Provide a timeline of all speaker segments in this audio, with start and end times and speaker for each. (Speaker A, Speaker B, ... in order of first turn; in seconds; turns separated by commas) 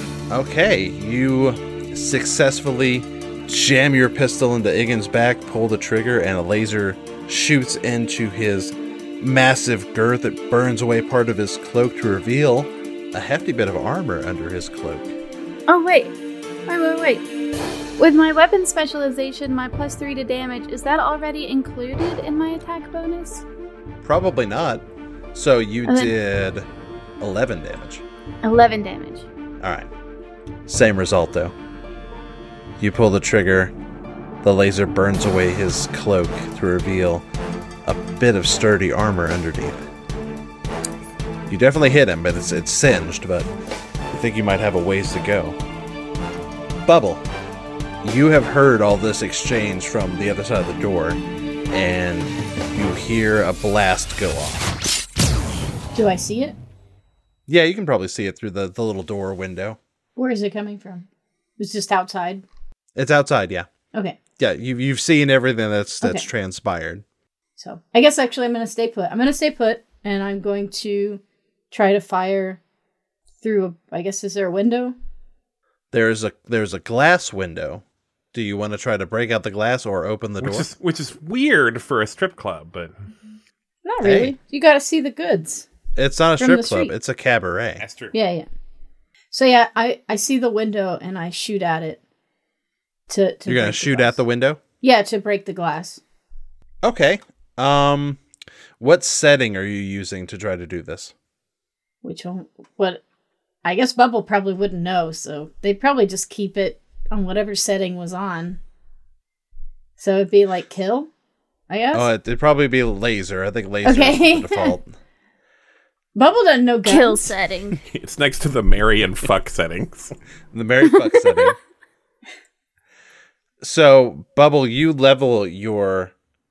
Speaker A: 0.3-15.1, Speaker B: 15.7-16.1, Speaker B: 16.7-17.3, Speaker B: 18.0-23.4, Speaker A: 24.0-26.7, Speaker B: 25.9-26.1, Speaker A: 27.2-28.0, Speaker B: 28.4-29.2, Speaker A: 29.6-29.9, Speaker A: 30.7-31.5, Speaker A: 32.8-33.7, Speaker A: 34.4-37.2, Speaker A: 37.8-39.8, Speaker A: 41.5-43.5, Speaker A: 44.1-45.6, Speaker A: 46.8-47.2, Speaker A: 48.0-51.2, Speaker A: 51.7-54.7, Speaker C: 55.9-56.5, Speaker A: 57.5-59.8, Speaker C: 60.1-61.0, Speaker C: 61.6-62.4, Speaker A: 62.9-63.7, Speaker C: 63.9-64.2, Speaker A: 64.4-67.0, Speaker C: 66.0-66.3, Speaker C: 67.6-72.6, Speaker C: 73.4-75.0, Speaker A: 75.9-80.7, Speaker D: 80.4-82.9, Speaker C: 83.8-85.7, Speaker A: 84.0-84.3, Speaker A: 86.0-87.8, Speaker C: 86.4-86.9, Speaker D: 87.8-88.1, Speaker C: 88.1-88.5, Speaker C: 89.3-92.0, Speaker C: 93.1-94.2, Speaker A: 93.5-94.6, Speaker C: 94.8-96.0, Speaker A: 96.8-98.2, Speaker A: 98.8-101.1, Speaker C: 102.0-103.0, Speaker C: 103.6-108.6, Speaker C: 110.0-111.1, Speaker C: 111.7-112.1, Speaker A: 111.9-115.0, Speaker C: 113.8-114.7, Speaker C: 116.2-117.3, Speaker B: 116.8-117.8, Speaker D: 117.9-120.1, Speaker A: 120.5-121.6, Speaker A: 123.6-126.1